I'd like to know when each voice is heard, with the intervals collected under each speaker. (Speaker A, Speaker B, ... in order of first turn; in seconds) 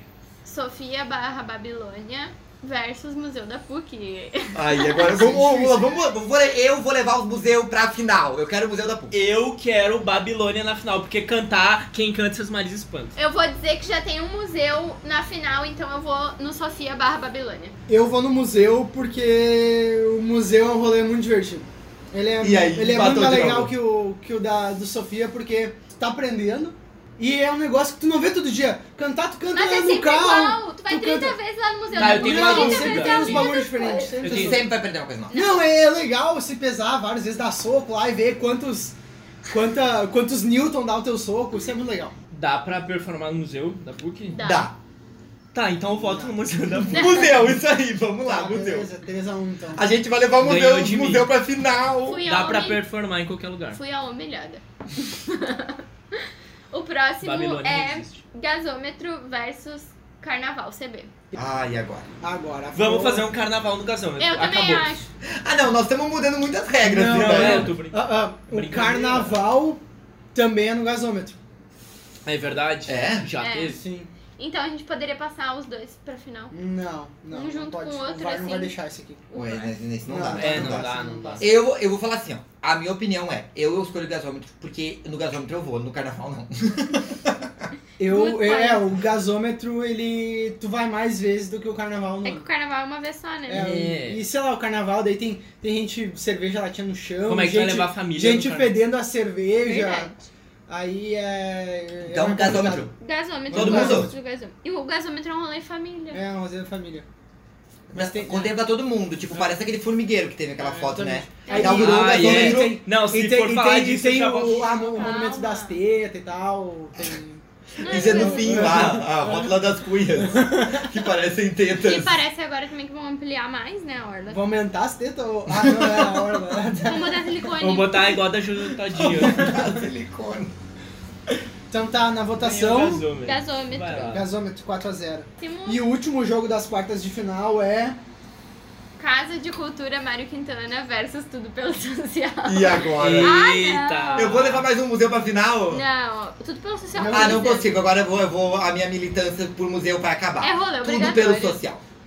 Speaker A: 0.4-5.3, 13.2-17.7, 29.5-34.2, 35.3-35.6, 44.3-44.7, 52.0-52.8, 53.7-61.1, 64.2-65.1, 73.4-73.8, 74.4-76.5, 77.3-78.7, 79.3-79.8, 88.0-88.8, 92.2-93.6, 99.6-100.3, 103.0-106.2, 111.5-111.8, 114.9-115.8, 117.8-118.8, 121.8-124.4, 126.8-128.1, 133.2-134.1, 135.4-135.8, 139.0-144.3, 145.7-147.7, 150.4-151.6
Speaker B: 4.5-9.1, 22.4-23.7, 34.2-35.3, 44.4-44.7, 46.9-48.9, 49.7-52.2, 61.3-62.1, 65.2-67.8, 72.8-73.3, 79.3-87.7, 102.0-102.9, 103.5-104.1, 107.9-112.7, 117.8-122.2, 128.8-130.5, 142.4-143.4, 144.2-145.8, 147.1-151.8
Speaker C: 5.0-5.9, 17.9-31.4, 31.9-34.6, 35.3-39.0, 39.5-42.1, 46.0-46.4, 48.2-49.8, 62.2-63.2, 66.8-69.8, 70.3-71.4, 73.7-74.1, 76.5-79.2, 80.0-81.5, 88.0-92.5, 93.5-100.1, 100.7-102.9, 103.5-104.1, 106.1-107.0, 107.9-108.5, 110.6-119.6, 120.2-120.8, 124.3-127.3, 131.7-133.1, 134.1-138.0, 146.9-147.6
Speaker D: 9.1-13.1, 31.9-33.5, 34.2-34.6, 42.3-44.4, 45.5-47.5, 50.4-51.3, 52.2-53.8, 57.2-58.2, 62.7-64.9, 67.1-69.4, 72.2-73.8, 80.3-81.5, 93.5-94.2, 97.2-98.8, 111.5-115.1, 127.6-129.6, 132.3-134.3, 143.0-144.7